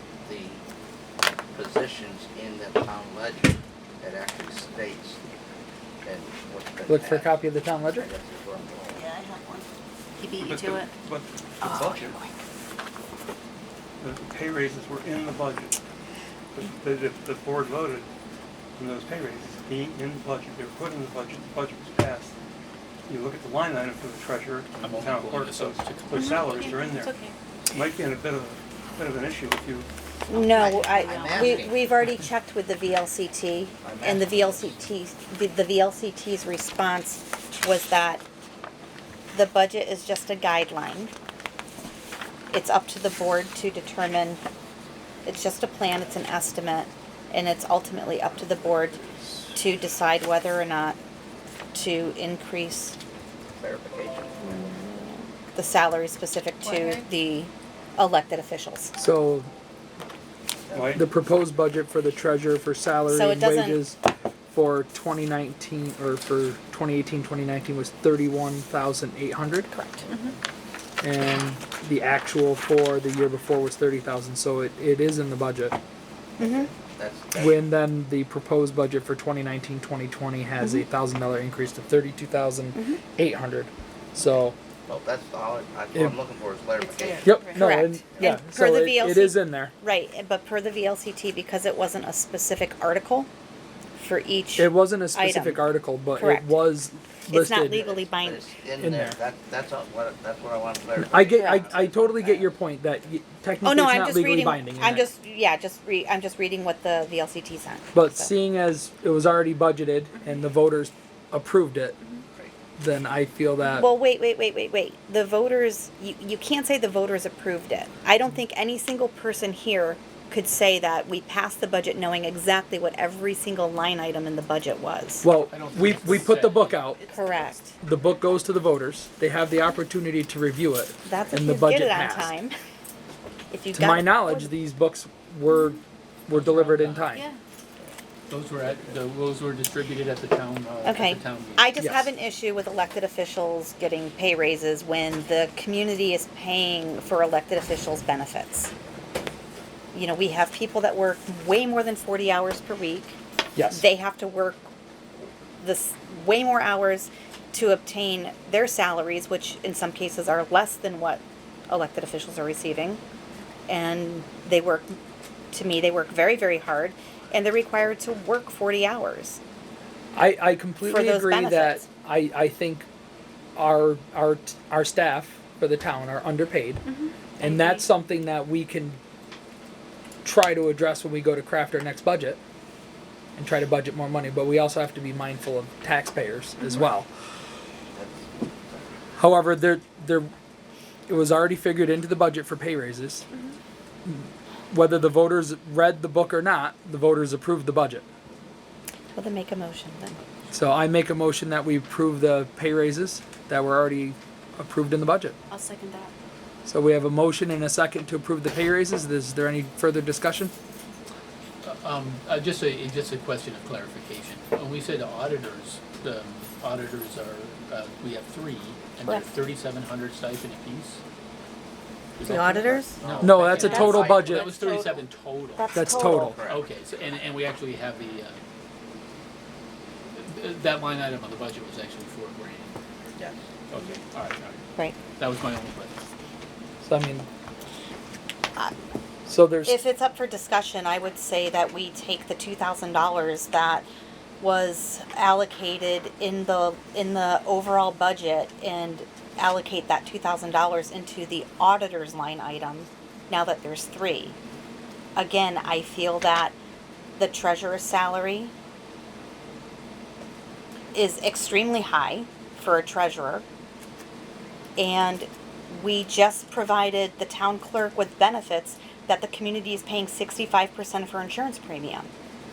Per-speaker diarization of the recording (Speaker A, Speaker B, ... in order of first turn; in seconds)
Speaker A: 0.2-0.6, 1.5-5.3, 6.0-9.0, 11.7-12.2, 30.4-31.8, 33.8-34.9, 53.5-54.8, 70.0-70.3, 76.4-77.6, 84.9-87.3, 88.1-88.4, 97.7-102.5, 187.9-188.9, 222.7-225.0, 225.8-226.7, 233.2-233.4
Speaker B: 6.9-8.1, 59.0-59.5, 60.9-64.0, 64.5-69.7, 71.0-75.8, 77.3-84.5, 87.2-89.7, 94.6-97.8, 98.8-99.2, 101.0-105.0, 107.9-112.0, 112.8-113.9, 125.2-127.0, 127.8-132.3, 133.7-137.3, 141.8-142.1, 153.5-153.8, 170.1-172.9, 173.6-176.8, 177.4-179.0, 180.2-182.4, 183.4-187.1, 189.2-190.3, 191.1-193.2, 194.0-198.1, 200.5-205.3, 206.7-210.5, 223.2-224.5, 225.7-226.4, 236.8-237.3, 239.2-239.7
Speaker C: 9.0-9.6, 10.2-10.9, 11.6-12.0, 26.2-27.3, 30.3-31.6, 56.6-57.1, 86.8-87.4, 137.1-137.4, 176.9-177.6, 205.5-205.9
Speaker D: 10.3-12.2, 14.0-15.8, 16.5-18.1, 18.8-22.3, 23.1-29.9, 60.7-61.0
Speaker E: 24.8-26.7, 125.5-127.5, 136.3-137.2, 138.3-141.7, 211.6-221.0, 222.2-228.4, 230.1-232.8, 233.7-234.6, 235.2-236.0
Speaker F: 26.2-26.5, 30.3-38.2, 39.3-41.1, 42.5-44.4, 45.2-49.0, 49.5-51.0, 51.7-53.0, 54.4-55.0, 55.5-59.0, 63.0-63.8, 69.7-70.3, 76.4-76.7, 80.6-80.8, 82.7-83.0, 87.5-93.3, 94.0-96.6, 97.3-98.5, 101.2-101.7, 103.6-108.3, 113.7-125.3, 127.1-127.7, 131.0-132.5, 133.5-134.5, 140.8-148.7, 149.9-153.2, 153.7-154.7, 155.6-163.0, 163.7-164.9, 165.5-169.4, 170.8-171.9, 199.1-200.2, 205.5-206.1, 222.2-223.0, 223.6-224.9, 225.6-226.3, 239.6-243.9, 244.4-254.3, 255.2-256.6, 257.2-258.5, 260.9-263.4, 264.8-272.1